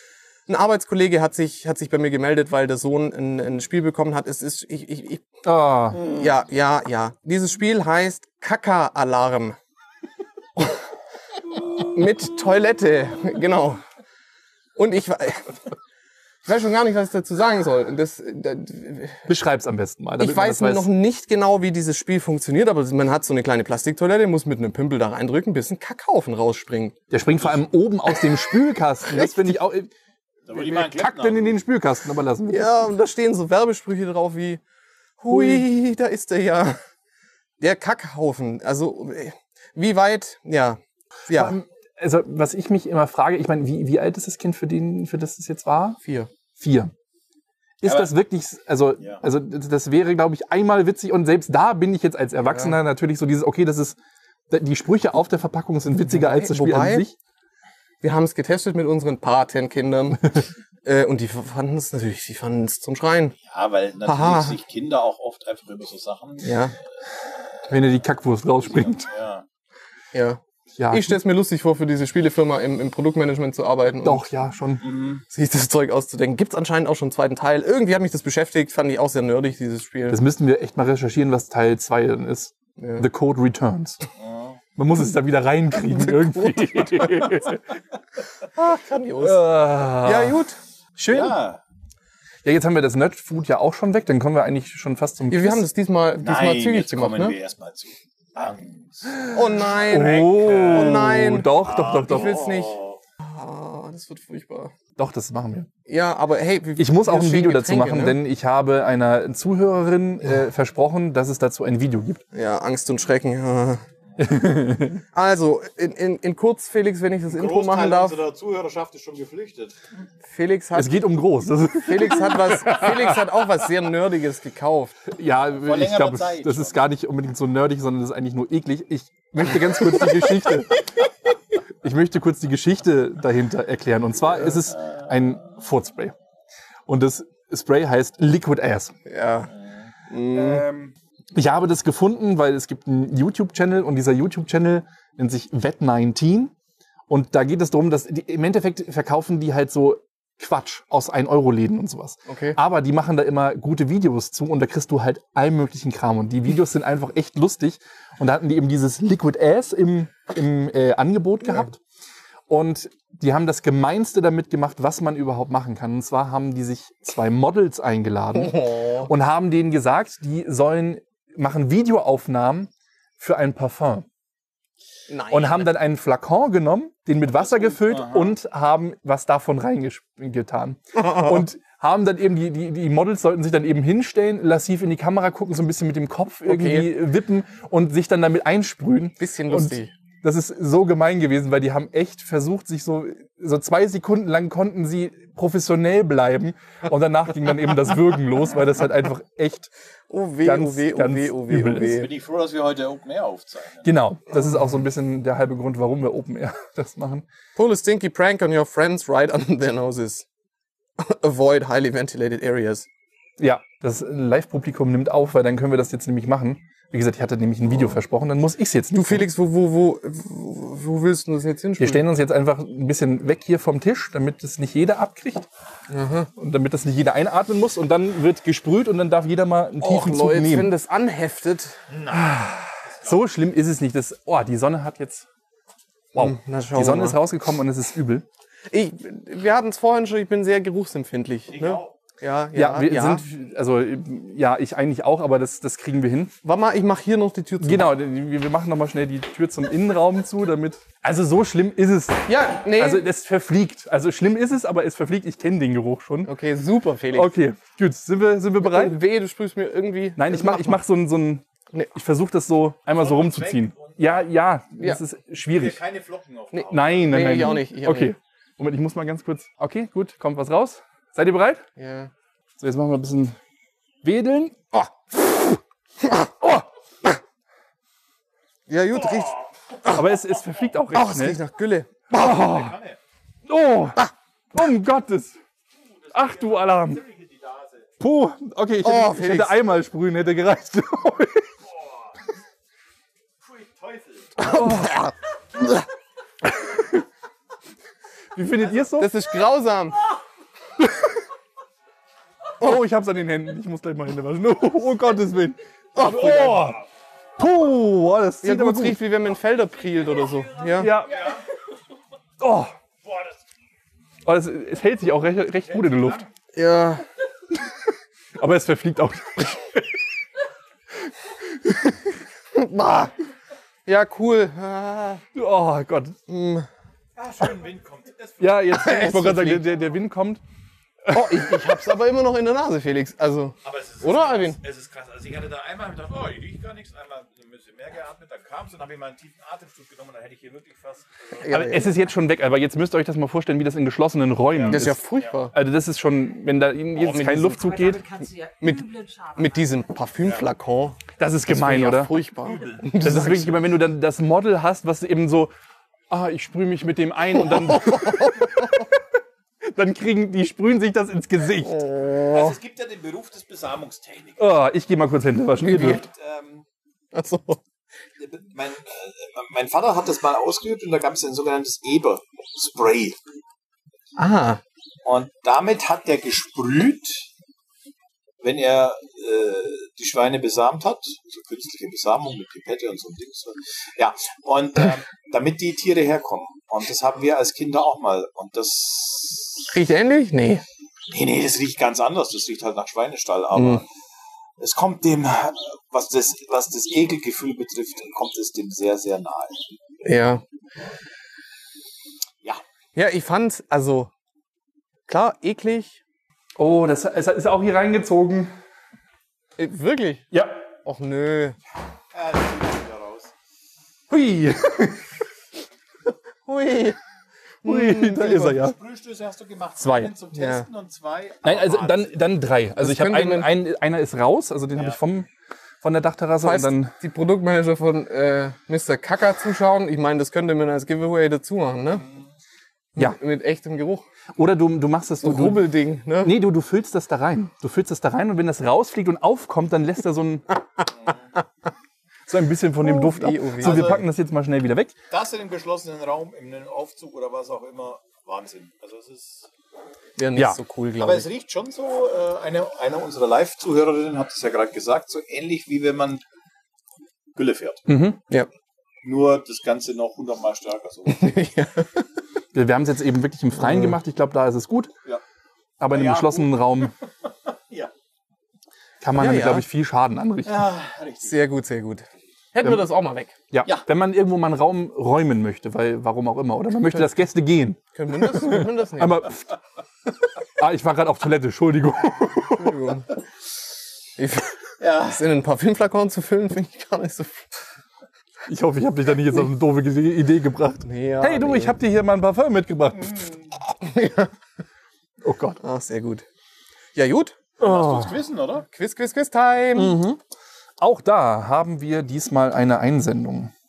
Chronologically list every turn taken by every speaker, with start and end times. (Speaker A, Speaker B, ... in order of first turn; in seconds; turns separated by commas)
Speaker A: 0.5-5.2, Speaker B: 5.4-6.0, Speaker A: 5.9-9.6, Speaker A: 11.8-13.8, Speaker A: 14.7-15.6, Speaker A: 16.4-19.3, Speaker B: 19.3-20.9, Speaker A: 20.2-27.0, Speaker B: 27.1-29.9, Speaker A: 29.1-29.6, Speaker C: 30.4-31.6, Speaker B: 30.5-32.7, Speaker A: 32.5-34.6, Speaker A: 35.2-36.8, Speaker B: 35.3-35.6, Speaker A: 37.6-41.5, Speaker B: 41.3-46.0, Speaker A: 46.0-46.3, Speaker B: 46.6-46.9, Speaker B: 47.8-54.0, Speaker C: 47.8-48.1, Speaker C: 49.0-49.2, Speaker A: 52.4-52.8, Speaker B: 54.5-57.1, Speaker A: 56.0-57.0, Speaker A: 58.0-63.4, Speaker C: 63.5-66.5, Speaker A: 64.0-64.5, Speaker A: 66.4-66.7, Speaker B: 67.7-69.1, Speaker C: 68.6-69.5, Speaker A: 70.1-74.3, Speaker B: 70.8-71.2, Speaker B: 74.0-74.8, Speaker C: 74.8-75.2, Speaker A: 75.3-80.2, Speaker B: 80.1-84.0, Speaker A: 82.8-83.0, Speaker C: 84.2-84.6, Speaker B: 84.8-87.7, Speaker A: 85.9-86.8, Speaker A: 88.5-90.6, Speaker B: 89.2-90.4, Speaker B: 91.0-91.4, Speaker C: 91.1-91.6, Speaker B: 92.4-95.6, Speaker A: 95.3-97.3, Speaker C: 96.2-103.0, Speaker A: 99.3-101.5, Speaker B: 99.9-102.4, Speaker A: 102.1-104.7, Speaker B: 105.0-105.7, Speaker A: 105.9-108.2, Speaker B: 106.8-112.2, Speaker A: 112.3-113.8, Speaker B: 114.2-115.0, Speaker A: 115.1-118.2, Speaker C: 117.3-119.8, Speaker A: 120.3-121.0, Speaker B: 120.7-123.2, Speaker A: 121.8-125.0, Speaker B: 125.1-131.0, Speaker C: 125.6-126.8, Speaker B: 131.8-136.1, Speaker C: 134.7-135.4, Speaker B: 136.9-138.9, Speaker A: 139.1-139.5, Speaker A: 140.1-140.6, Speaker C: 140.3-140.9, Speaker B: 141.3-146.5, Speaker B: 147.1-161.8, Speaker A: 152.3-152.6, Speaker B: 162.5-174.1, Speaker A: 168.3-169.1, Speaker A: 175.1-175.7, Speaker B: 175.3-199.7, Speaker C: 177.9-178.3, Speaker A: 181.0-181.4, Speaker A: 186.4-186.9, Speaker A: 189.2-189.9, Speaker A: 200.1-202.1, Speaker B: 200.4-202.0, Speaker C: 201.9-203.9, Speaker B: 203.8-207.2, Speaker A: 207.6-210.2, Speaker A: 211.0-212.9, Speaker B: 213.4-219.2, Speaker A: 218.9-222.0, Speaker B: 221.8-225.5, Speaker A: 225.9-226.3, Speaker B: 226.3-230.7, Speaker A: 229.8-231.8, Speaker C: 231.9-232.3, Speaker B: 232.1-235.2, Speaker C: 232.8-233.2, Speaker B: 236.1-238.2, Speaker A: 236.1-237.2, Speaker A: 238.7-243.2, Speaker C: 241.5-241.9, Speaker B: 242.5-246.3, Speaker A: 246.4-247.9, Speaker B: 247.6-256.3, Speaker A: 252.3-253.0, Speaker A: 256.2-257.3, Speaker B: 257.1-259.0, Speaker A: 258.6-260.8, Speaker B: 260.2-265.8, Speaker C: 262.9-264.3, Speaker C: 265.5-267.3, Speaker A: 266.5-268.1, Speaker B: 266.7-271.6, Speaker A: 271.8-272.1, Speaker B: 272.6-273.4, Speaker B: 274.0-275.4, Speaker A: 276.0-276.3, Speaker A: 278.7-280.0, Speaker B: 279.9-281.4, Speaker A: 280.9-282.2, Speaker B: 282.1-282.7, Speaker C: 282.1-283.0, Speaker B: 283.4-285.4, Speaker C: 285.9-287.9, Speaker B: 286.1-287.0, Speaker B: 288.0-291.5, Speaker A: 288.8-289.6, Speaker C: 291.8-292.1, Speaker C: 293.4-294.3, Speaker A: 294.4-295.1, Speaker B: 294.4-295.1, Speaker B: 296.6-297.0, Speaker B: 298.3-299.1, Speaker A: 299.0-300.0, Speaker B: 302.6-306.8, Speaker A: 305.9-306.7, Speaker B: 307.4-309.0, Speaker A: 308.4-310.9, Speaker B: 310.8-311.3, Speaker C: 311.1-311.4, Speaker B: 312.4-312.7, Speaker C: 313.0-313.4, Speaker B: 314.2-316.2, Speaker C: 315.6-316.3, Speaker A: 316.5-317.0, Speaker B: 318.4-320.0, Speaker B: 321.1-322.1, Speaker A: 322.5-323.1, Speaker A: 323.9-325.2, Speaker B: 325.3-326.2, Speaker A: 326.3-326.7, Speaker C: 327.1-328.6, Speaker B: 328.4-330.4, Speaker A: 328.7-329.6, Speaker B: 331.0-331.9, Speaker A: 331.1-334.6, Speaker C: 333.6-341.8, Speaker A: 341.4-341.9, Speaker B: 341.5-345.0, Speaker C: 344.5-345.3, Speaker A: 344.7-345.5, Speaker B: 345.5-348.0, Speaker A: 347.0-347.6, Speaker D: 347.5-349.9, Speaker A: 349.4-353.6, Speaker C: 350.2-350.5, Speaker B: 351.2-352.1, Speaker C: 352.4-352.8, Speaker B: 353.0-355.5, Speaker B: 356.1-358.9, Speaker A: 357.4-358.8, Speaker B: 359.6-361.9, Speaker A: 361.6-362.5, Speaker C: 362.3-364.5, Speaker B: 364.4-366.0, Speaker A: 365.6-366.0, Speaker C: 365.8-366.6, Speaker A: 367.1-367.6, Speaker C: 368.2-373.2, Speaker A: 374.2-374.6, Speaker C: 375.0-377.3, Speaker C: 378.4-389.7, Speaker A: 389.7-390.6, Speaker C: 391.1-393.9, Speaker A: 393.5-393.8, Speaker C: 394.6-399.7, Speaker A: 400.0-400.4, Speaker A: 402.9-404.1, Speaker A: 405.1-406.0, Speaker B: 406.6-408.5, Speaker A: 409.6-410.3, Speaker B: 410.3-410.7, Speaker A: 410.8-411.6, Speaker C: 412.1-413.3, Speaker B: 414.1-415.1, Speaker A: 416.4-417.0, Speaker A: 417.6-418.6, Speaker B: 417.6-418.8, Speaker C: 418.5-422.1, Speaker B: 419.8-420.1, Speaker A: 420.3-420.6, Speaker B: 421.4-425.3, Speaker A: 422.8-423.5, Speaker C: 424.7-425.0, Speaker B: 425.8-426.9, Speaker A: 426.4-432.0, Speaker A: 432.9-434.0, Speaker B: 434.4-435.7, Speaker A: 435.2-436.3, Speaker B: 436.2-440.5, Speaker C: 441.0-441.2, Speaker B: 442.3-444.9, Speaker A: 442.8-444.0, Speaker C: 443.6-444.0, Speaker C: 445.1-449.5, Speaker A: 450.2-451.3, Speaker C: 451.0-456.2, Speaker C: 457.3-457.8, Speaker B: 457.9-458.2, Speaker C: 459.0-461.3, Speaker A: 461.1-462.0, Speaker B: 462.5-464.9, Speaker A: 463.6-463.9, Speaker B: 465.8-466.9, Speaker C: 465.9-467.9, Speaker B: 469.0-470.6, Speaker A: 469.1-469.6, Speaker C: 470.4-471.4, Speaker A: 471.2-473.3, Speaker B: 472.6-472.9, Speaker B: 473.5-479.4, Speaker A: 477.9-479.2, Speaker B: 480.6-482.9, Speaker A: 482.5-483.1, Speaker A: 484.2-487.7, Speaker C: 484.8-485.2, Speaker B: 488.5-493.3, Speaker A: 490.9-491.7, Speaker A: 493.7-494.3, Speaker B: 495.2-495.6, Speaker A: 495.6-496.2, Speaker A: 496.9-498.1, Speaker C: 497.6-498.6, Speaker B: 497.6-498.0, Speaker A: 498.7-500.0, Speaker B: 499.7-500.2, Speaker B: 500.8-503.5